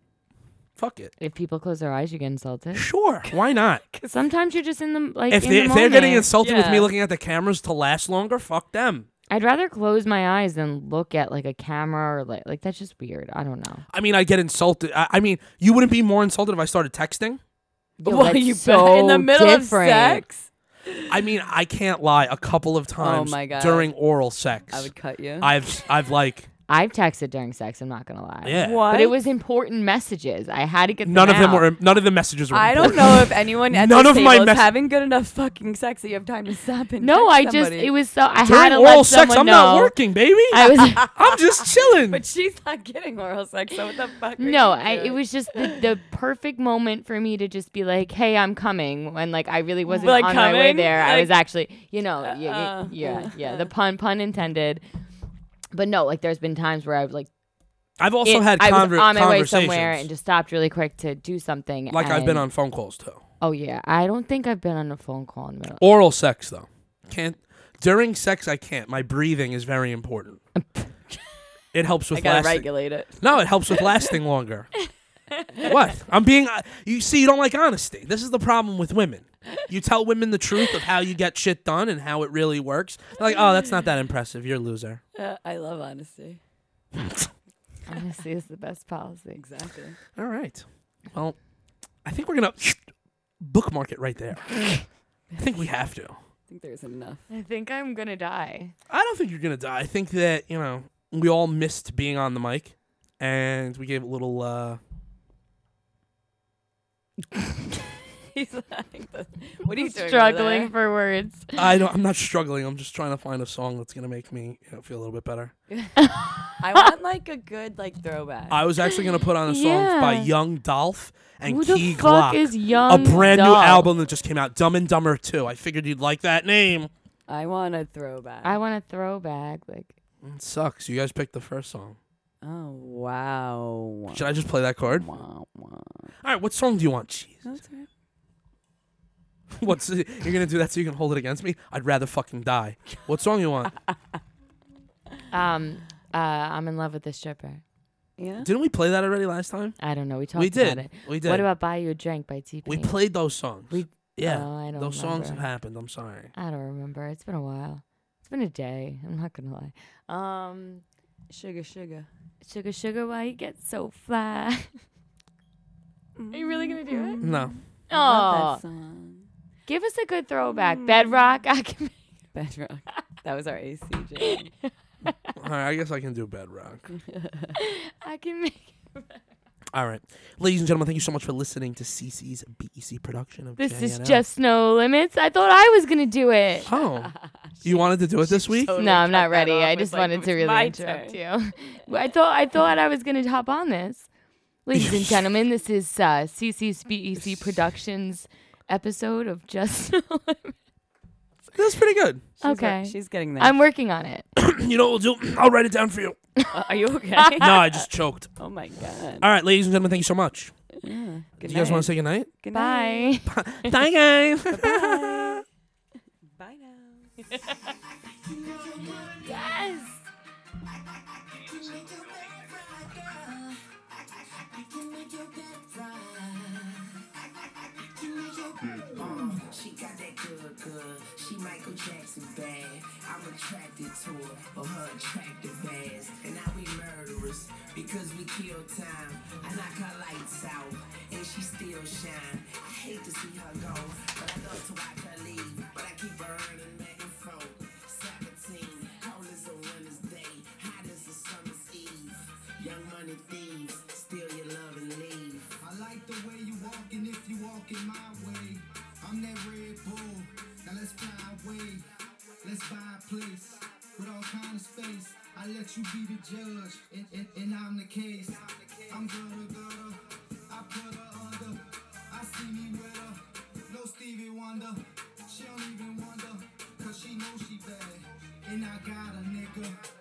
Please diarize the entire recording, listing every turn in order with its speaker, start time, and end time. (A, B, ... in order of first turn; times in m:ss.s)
0:00.8-0:01.1 A
0:01.2-0:02.9 B
0:02.7-0:03.8 A
0:03.9-0:06.3 B
0:05.3-0:09.1 A
0:06.4-0:06.9 C
0:09.3-0:13.8 B
0:13.9-0:17.4 A
0:18.0-0:20.2 B
0:18.0-0:21.2 C
0:21.1-0:26.5 A
0:23.0-0:23.9 C
0:24.7-0:25.5 C
0:26.7-0:31.7 B
0:28.4-0:28.9 A
0:28.5-0:29.2 C
0:31.0-0:34.7 A
0:32.5-0:37.9 C
0:37.0-0:39.9 B
0:38.4-0:42.2 A
0:40.5-0:41.1 B
0:41.0-0:41.4 C
0:42.0-0:45.8 C
0:44.4-0:54.8 B
0:49.9-0:51.3 C
0:52.2-0:53.7 C
0:55.7-0:57.3 B
0:58.0-1:00.1 A
0:58.2-1:02.5 B
1:01.9-1:03.2 A
1:03.4-1:05.8 B
1:05.8-1:10.4 A
1:10.5-1:10.9 B
1:11.7-1:12.7 A
1:12.1-1:13.9 C
1:13.2-1:14.7 A
1:15.6-1:25.0 A
1:25.1-1:26.4 C
1:26.9-1:27.3 A
1:27.9-1:29.4 B
1:29.4-1:30.0 C
1:30.2-1:31.4 A
1:32.0-1:32.8 A
1:33.4-1:34.7 A
1:35.4-1:36.2 A
1:36.5-1:37.2 C
1:37.3-1:38.7 B
1:38.9-1:44.8 A
1:48.3-1:50.7 C
1:49.7-1:51.6 B
1:51.6-1:55.5 A
1:55.7-1:58.6 C
1:56.0-1:56.9 B
1:58.5-2:06.9 A
1:59.4-2:00.3 B
2:01.4-2:03.9 B
2:02.8-2:03.4 C
2:07.3-2:08.6 C
2:08.4-2:09.9 B
2:10.2-2:12.0 A
2:12.4-2:14.2 C
2:14.1-2:15.1 A
2:14.8-2:16.1 C
2:16.2-2:17.5 A
2:17.4-2:17.9 C
2:19.5-2:23.7 A
2:25.3-2:27.6 B
2:28.2-2:28.5 C
2:28.4-2:29.8 A
2:29.8-2:33.0 B
2:30.4-2:31.5 A
2:32.6-2:36.3 A
2:33.7-2:35.4 B
2:36.3-2:40.8 B
2:41.3-2:42.1 C
2:42.4-2:44.8 B
2:46.2-2:49.3 C
2:46.3-2:47.2 B
2:47.2-2:47.6 A
2:47.9-2:48.6 B
2:49.7-2:52.0 B
2:50.5-2:51.2 C
2:52.3-2:54.5 C
2:55.3-2:56.9 A
2:56.9-2:57.5 C
2:57.5-2:59.2 B
2:59.7-3:04.2 A
3:03.6-3:06.7 B
3:06.6-3:08.7 A
3:06.7-3:11.2 C
3:08.8-3:14.1 B
3:14.6-3:20.5 B
3:14.7-3:15.2 A
3:21.5-3:22.2 A
3:22.4-3:23.5 C
3:22.4-3:24.2 B
3:24.4-3:26.2 A
3:26.5-3:29.3 C
3:27.4-3:28.3 A
3:29.2-3:30.5 A
3:30.8-3:33.1 C
3:31.4-3:32.3 A
3:32.5-3:33.7 B
3:33.2-3:35.4 A
3:34.9-3:35.2 B
3:36.4-3:37.3 C
3:37.5-3:39.8 D
3:39.2-3:40.0 B
3:40.6-4:15.6 D
4:15.6-4:21.9 E
4:22.4-4:39.8 E